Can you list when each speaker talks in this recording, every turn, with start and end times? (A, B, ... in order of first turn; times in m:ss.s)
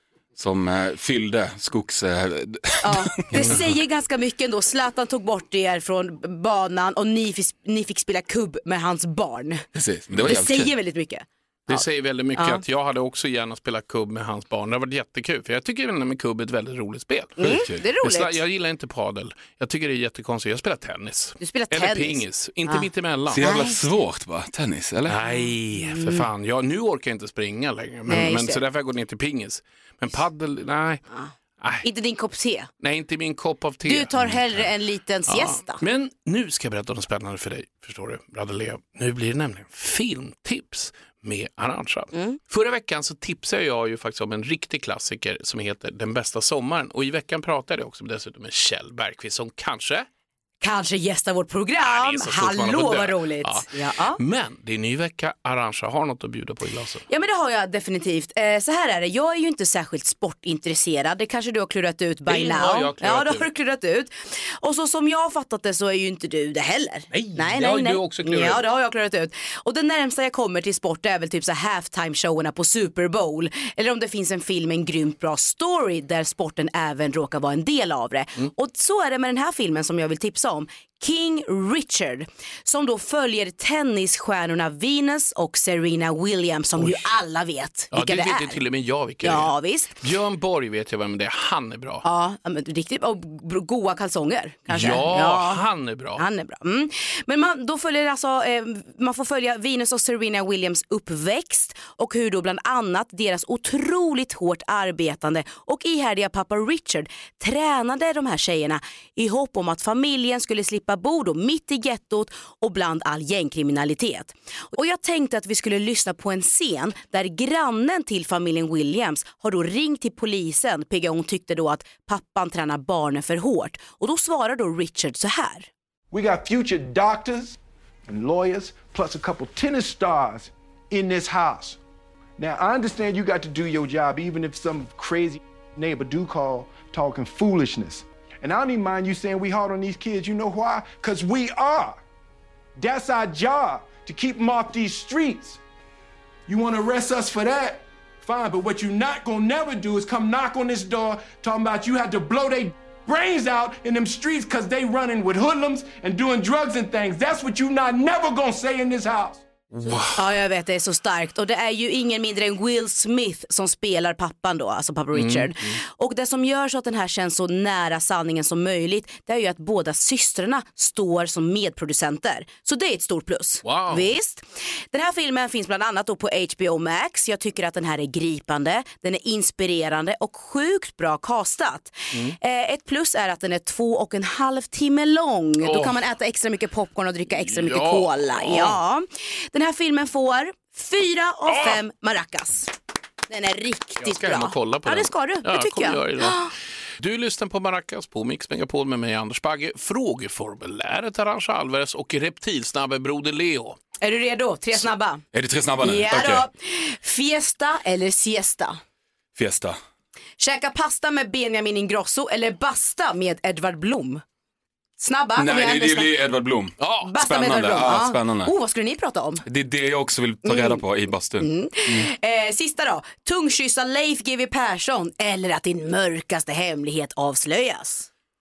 0:00.3-0:03.6 A
0:02.8-0:09.6 B
0:09.7-0:10.7 A
0:10.2-0:11.8 B
0:11.7-0:23.5 C
0:12.4-0:12.6 B
0:17.4-0:18.4 B
0:17.4-0:17.8 A
0:21.4-0:22.9 B
0:23.3-0:25.2 A
0:23.4-0:23.7 B
0:25.1-0:31.0 C
0:25.7-0:26.2 B
0:28.1-0:28.6 B
0:31.8-0:32.7 B
0:32.8-0:34.7 C
0:33.8-0:35.8 B
0:35.3-0:50.1 C
0:50.6-0:54.2 B
0:51.8-0:57.0 C
0:57.1-1:28.6 B
1:02.3-1:03.5 C
1:07.1-1:08.6 C
1:26.8-1:27.0 C
1:27.9-1:32.0 C
1:29.2-1:30.0 B
1:32.0-2:05.7 B
1:34.7-1:36.2 C
2:06.1-2:11.8 D
2:12.4-2:22.0 D
2:22.8-2:25.6 D
2:26.5-2:39.4 D
2:39.8-2:40.2 C
2:39.9-3:12.7 B
2:45.1-2:45.8 C
2:53.6-2:54.1 C
3:05.6-3:06.0 C
3:07.3-3:08.8 C
3:11.5-3:11.8 C
3:13.3-3:16.5 B
3:14.0-3:23.8 C
3:24.0-3:25.2 B
3:25.3-3:26.5 A
3:25.8-3:28.8 B
3:29.4-3:29.8 A
3:30.4-3:34.2 B
3:35.0-3:36.1 B
3:35.4-3:38.5 A
3:36.8-3:37.1 C
3:37.0-3:39.4 B
3:39.4-3:42.1 A
3:40.4-3:40.8 B
3:41.4-3:48.1 B